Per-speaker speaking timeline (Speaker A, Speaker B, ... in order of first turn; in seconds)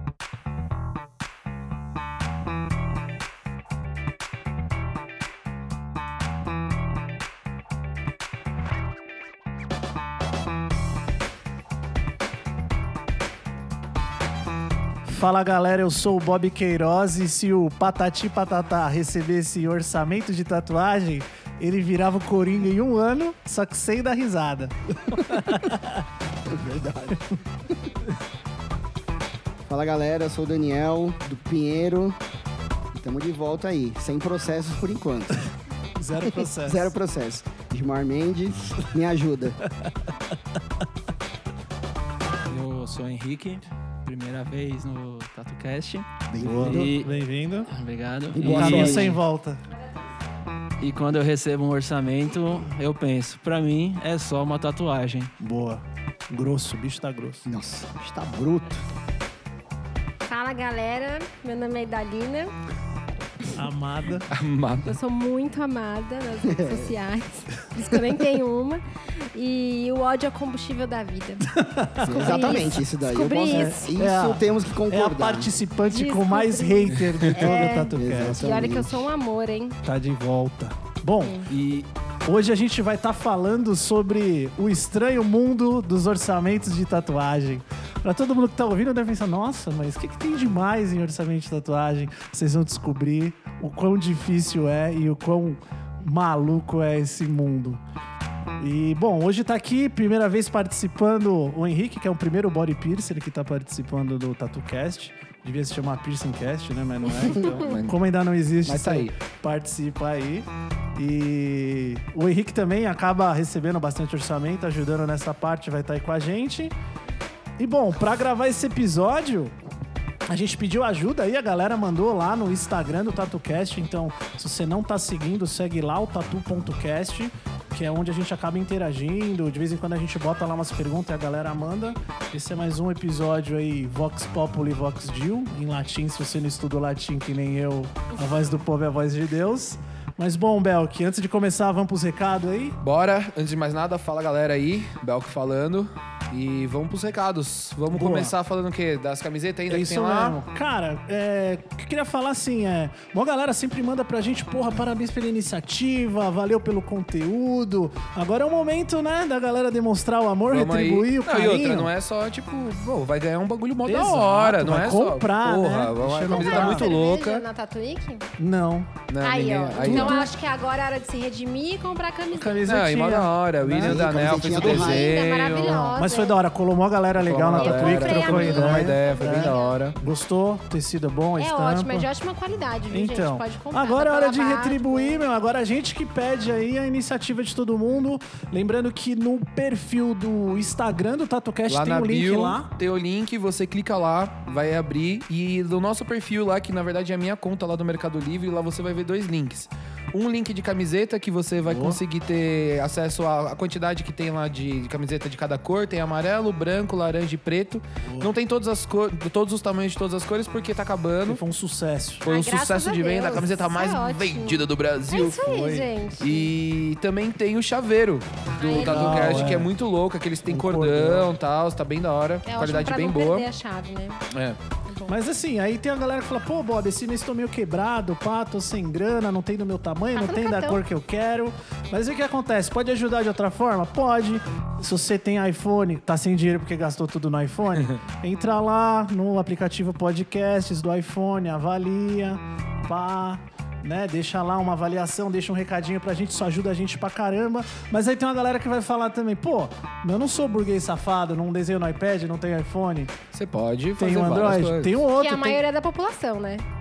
Speaker A: 15.1-26.0, 36.0-36.9, 46.4-47.7, 48.4-49.6, 55.4-57.5, 63.5-64.3, 71.5-72.4, 73.5-78.4, 79.8-81.4, 82.2-97.8, 98.6-116.7, 117.6-119.5, 120.3-142.8, 147.9-148.3, 149.7-161.9, 163.8-166.9, 168.4-168.9, 169.8-170.3, 172.3-174.8, 175.7-182.1, 182.9-192.7, 201.6-202.0, 208.0-208.3, 211.2-212.3, 215.4-215.9, 218.7-219.7, 220.5-221.3, 225.1-253.2, 254.0-255.6
Speaker B: 25.1-25.5, 26.4-27.7, 29.7-32.2, 32.9-35.4, 36.2-39.6, 46.3-46.9, 48.3-49.1, 57.5-58.8, 66.4-66.9, 72.0-75.5, 77.9-79.1, 173.8-175.2
Speaker C: 42.5-47.1, 47.7-49.2, 50.8-55.3
Speaker D: 60.2-62.5, 64.8-73.9, 75.9-79.8, 81.2-81.5, 166.3-168.2, 169.2-172.7, 174.6-176.4, 177.5-179.8, 181.4-185.2, 212.2-216.5, 218.6-219.5, 222.4-224.2, 224.9-225.1, 230.1-230.8, 255.1-256.6
Speaker E: 64.3-64.9, 81.5-81.9, 107.2-108.0, 108.6-109.1, 142.8-150.4, 160.5-167.4, 169.1-170.3, 172.6-175.9, 177.2-180.0, 191.7-211.4, 212.2-223.5, 224.3-224.6, 253.3-255.0